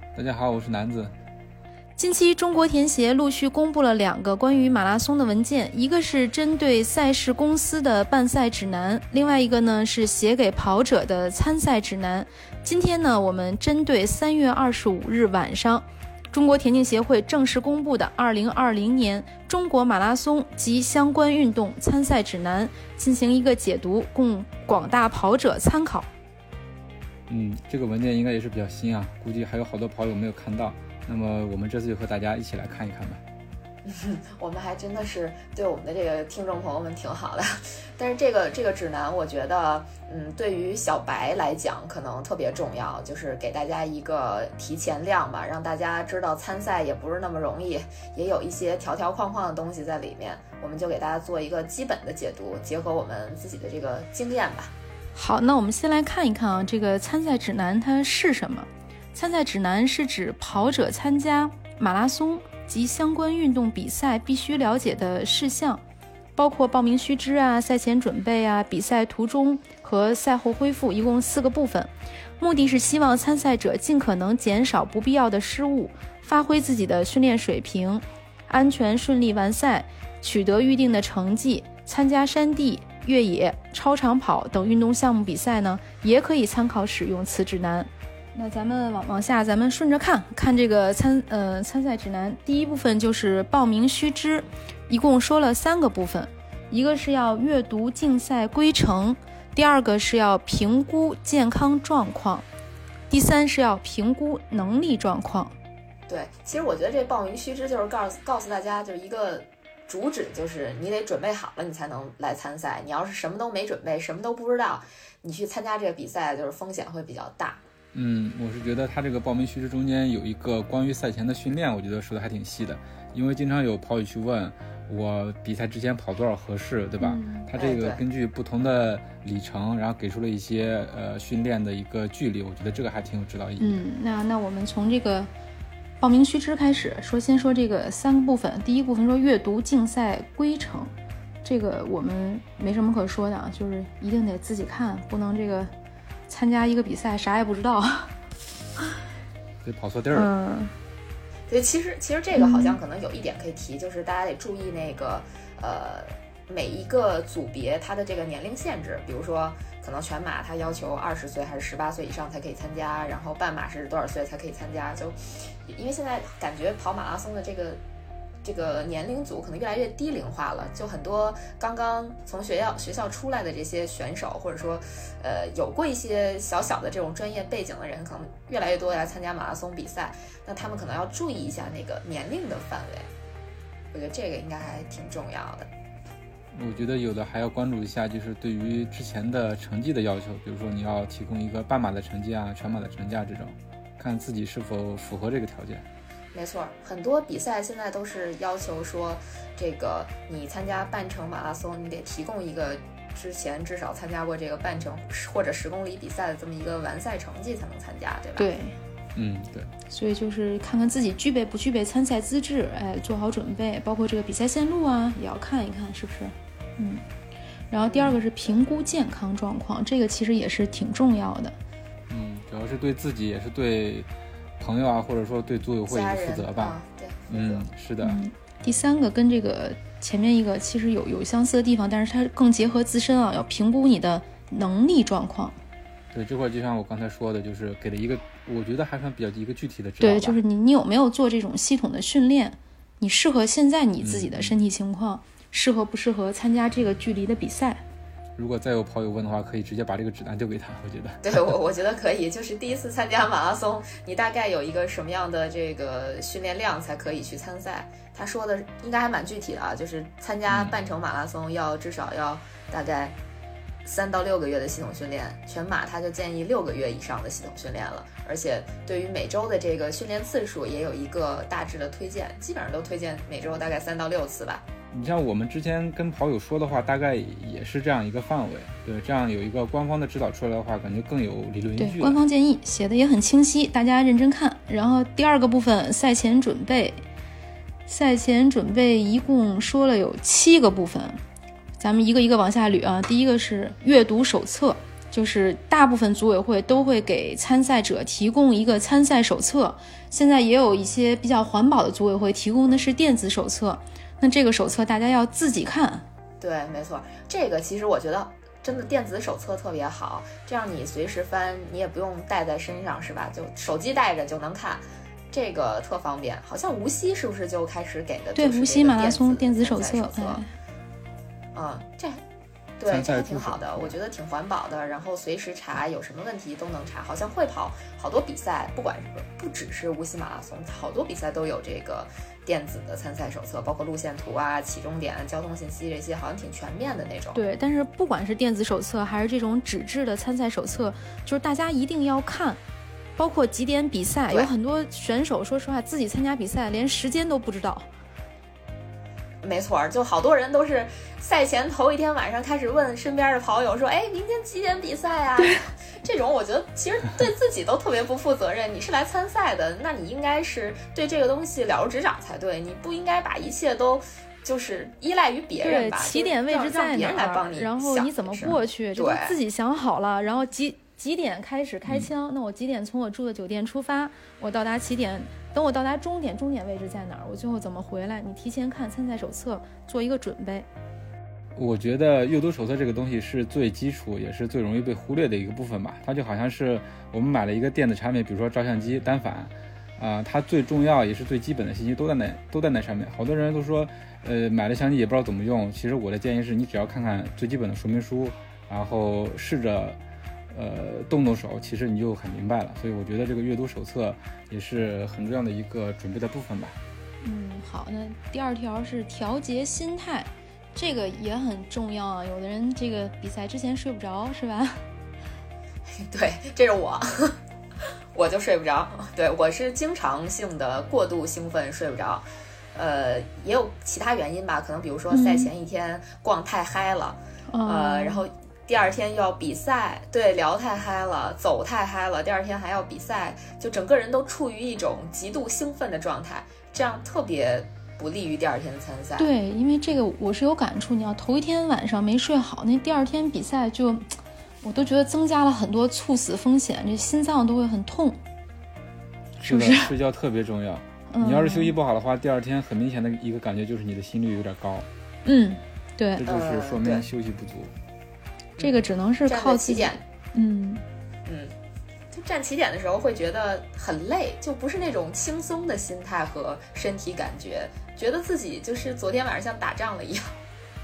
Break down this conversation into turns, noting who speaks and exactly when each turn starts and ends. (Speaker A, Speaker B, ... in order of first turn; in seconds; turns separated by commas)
Speaker A: 0.1-1.1, Speaker B: 2.0-26.1, Speaker A: 27.3-33.2, Speaker C: 33.9-54.7, Speaker B: 55.1-65.8, Speaker B: 66.4-102.5, Speaker B: 103.1-105.6, Speaker C: 106.1-117.6, Speaker A: 117.9-133.8, Speaker B: 127.0-127.5, Speaker C: 127.6-128.0, Speaker B: 133.6-135.3, Speaker B: 136.0-140.9, Speaker B: 141.4-145.7, Speaker B: 146.3-148.1, Speaker A: 149.6-150.3, Speaker B: 150.1-150.8, Speaker C: 151.5-167.8, Speaker B: 152.3-152.8, Speaker C: 168.4-183.1, Speaker C: 183.9-185.7, Speaker A: 186.5-195.8, Speaker C: 196.3-208.5, Speaker B: 208.4-208.8, Speaker A: 209.2-209.7, Speaker B: 209.9-217.0, Speaker B: 217.7-221.6, Speaker C: 217.8-218.2, Speaker A: 222.1-226.8, Speaker C: 225.9-227.7, Speaker A: 227.3-228.2, Speaker B: 228.0-235.6, Speaker A: 236.1-240.4, Speaker B: 240.0-247.8, Speaker A: 244.0-244.6, Speaker A: 248.4-251.5, Speaker C: 251.2-263.2, Speaker A: 260.5-260.8, Speaker C: 263.9-274.6, Speaker A: 274.9-282.2, Speaker B: 281.8-287.0, Speaker B: 287.9-291.2, Speaker B: 291.8-306.1, Speaker C: 306.4-320.4, Speaker B: 318.4-320.5, Speaker C: 321.5-322.2, Speaker C: 322.8-337.4, Speaker A: 322.9-323.9, Speaker B: 337.4-342.6, Speaker B: 343.2-347.9, Speaker C: 349.4-369.4, Speaker B: 355.4-355.6, Speaker B: 365.6-380.7, Speaker A: 381.6-400.0, Speaker A: 400.5-406.8, Speaker B: 407.2-414.8, Speaker C: 415.9-417.4, Speaker C: 418.1-439.3, Speaker B: 425.1-425.5, Speaker B: 427.5-428.2, Speaker B: 439.2-448.2, Speaker B: 449.4-449.9, Speaker A: 449.4-454.9, Speaker B: 451.1-451.7, Speaker B: 455.2-456.2, Speaker A: 456.2-457.7, Speaker C: 456.2-457.1, Speaker C: 458.6-460.0, Speaker B: 458.6-460.8, Speaker C: 461.3-461.5, Speaker C: 462.1-470.4